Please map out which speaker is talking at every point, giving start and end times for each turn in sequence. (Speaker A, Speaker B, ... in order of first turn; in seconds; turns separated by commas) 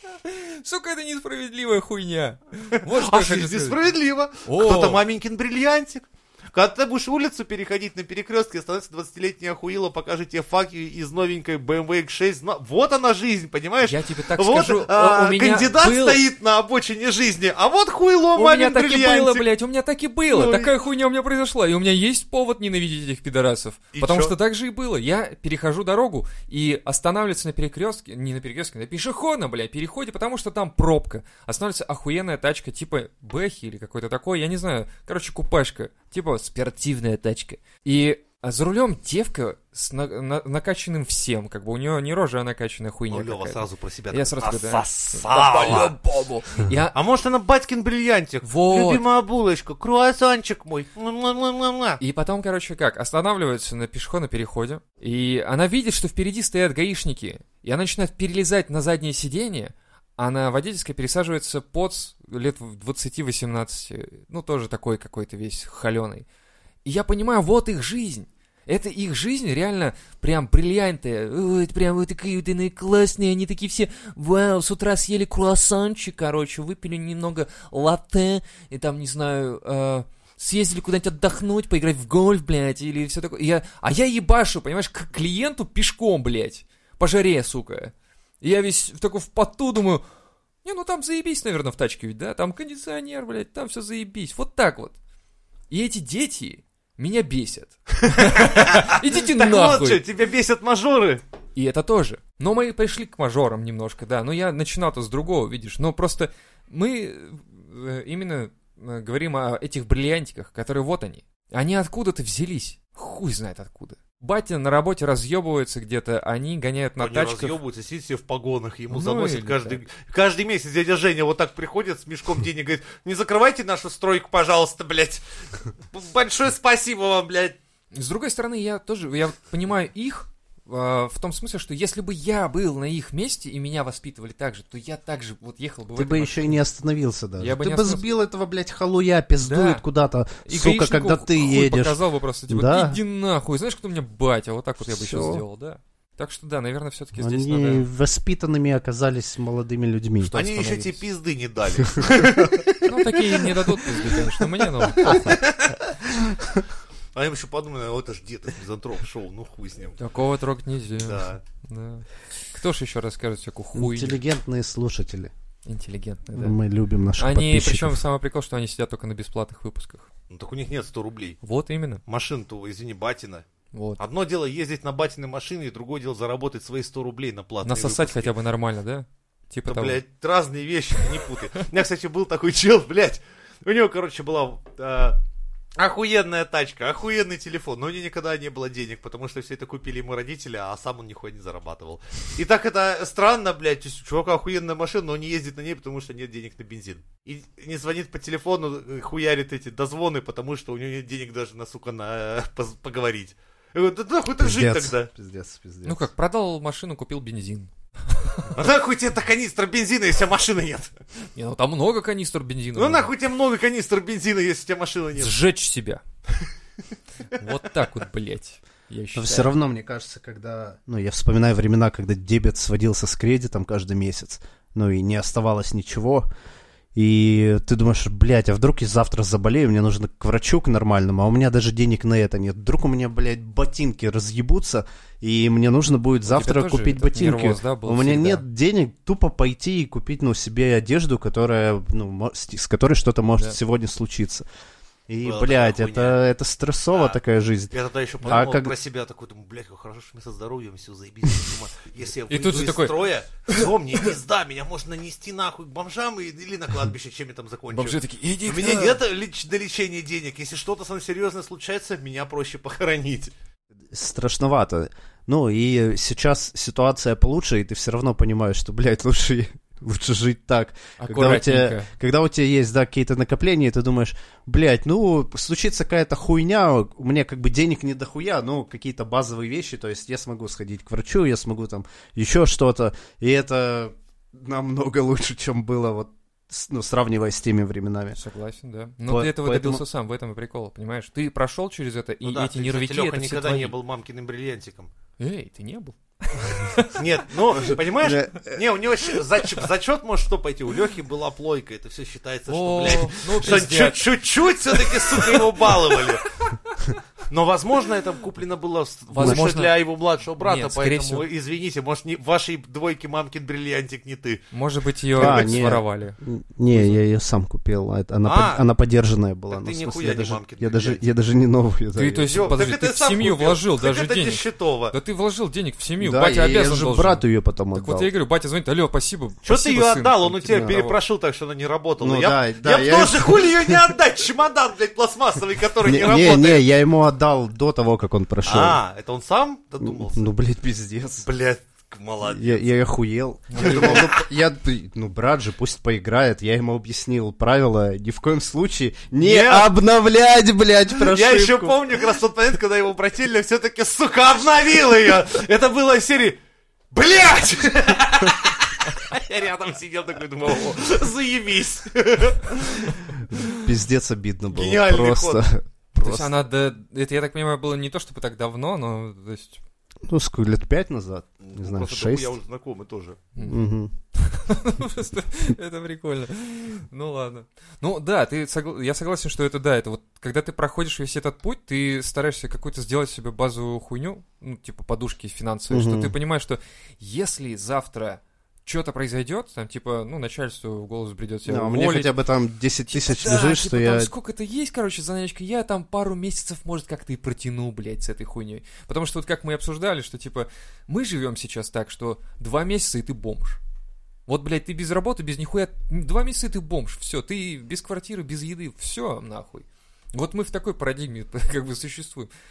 Speaker A: 0.2-3.8, Speaker B: 2.8-19.5, Speaker A: 4.4-5.0, Speaker A: 13.8-16.2, Speaker A: 18.3-47.0, Speaker B: 20.3-20.7, Speaker B: 23.9-24.3, Speaker B: 43.1-45.9, Speaker B: 46.9-52.0, Speaker A: 48.4-49.0, Speaker A: 52.0-66.2, Speaker A: 66.8-90.0, Speaker A: 90.6-94.9, Speaker A: 95.7-100.0, Speaker B: 98.0-101.2, Speaker A: 101.5-117.6, Speaker B: 117.0-125.2, Speaker A: 118.9-119.8, Speaker B: 125.9-127.6, Speaker A: 127.9-136.6, Speaker C: 135.9-143.0, Speaker A: 137.4-138.0, Speaker A: 139.4-139.8, Speaker A: 140.4-147.8, Speaker C: 144.8-145.4, Speaker C: 147.2-151.0, Speaker B: 150.2-152.8, Speaker C: 151.8-152.8, Speaker A: 152.8-155.4, Speaker C: 155.0-155.4, Speaker B: 155.0-155.8, Speaker C: 156.2-156.6, Speaker B: 157.1-160.0, Speaker A: 160.0-164.2, Speaker B: 161.0-161.4, Speaker C: 163.7-165.3, Speaker A: 165.7-166.6, Speaker C: 166.3-168.0, Speaker A: 167.2-170.1, Speaker B: 170.3-171.4, Speaker A: 171.4-172.0, Speaker B: 172.1-173.4, Speaker A: 173.7-174.0, Speaker B: 174.0-178.3, Speaker A: 177.6-180.0, Speaker B: 179.7-185.2, Speaker B: 185.8-205.1, Speaker C: 204.4-206.0, Speaker A: 205.8-208.5, Speaker B: 208.5-210.9, Speaker A: 211.3-213.1, Speaker B: 212.8-215.4, Speaker A: 215.2-216.0, Speaker A: 217.3-219.5, Speaker C: 219.1-226.3, Speaker C: 226.9-244.4, Speaker A: 236.3-238.4, Speaker C: 245.1-248.7, Speaker B: 245.2-246.2, Speaker B: 246.9-247.2, Speaker B: 247.7-263.3, Speaker A: 252.3-253.7, Speaker A: 257.7-259.0, Speaker C: 263.9-288.2, Speaker A: 271.0-271.9, Speaker A: 288.1-293.7, Speaker C: 289.1-289.8, Speaker B: 292.2-294.9, Speaker A: 295.2-297.0, Speaker B: 296.9-306.3, Speaker C: 297.7-298.6, Speaker A: 302.5-304.1, Speaker A: 304.9-305.9, Speaker B: 307.3-314.4, Speaker A: 309.1-309.8, Speaker A: 310.4-311.2, Speaker A: 314.5-316.2, Speaker B: 315.2-315.6, Speaker C: 315.2-322.5, Speaker A: 316.7-317.0, Speaker B: 318.2-318.6, Speaker B: 319.5-321.0, Speaker A: 321.9-331.0, Speaker B: 322.3-324.9, Speaker C: 326.0-328.1, Speaker B: 329.4-336.6, Speaker C: 330.5-330.8, Speaker C: 332.0-333.9, Speaker C: 335.8-338.8, Speaker B: 338.4-340.3, Speaker C: 339.8-341.3, Speaker B: 341.2-342.8, Speaker C: 342.2-351.8, Speaker A: 343.5-344.0, Speaker B: 343.6-344.2, Speaker B: 349.2-349.7, Speaker B: 350.9-356.4, Speaker B: 356.9-363.2, Speaker C: 363.3-366.4, Speaker B: 364.5-365.4, Speaker A: 366.0-369.6, Speaker C: 370.1-372.3, Speaker B: 371.4-373.2, Speaker C: 373.4-373.9, Speaker A: 374.2-392.1, Speaker C: 385.7-386.1, Speaker C: 391.4-394.1, Speaker A: 392.9-403.6, Speaker A: 404.3-412.3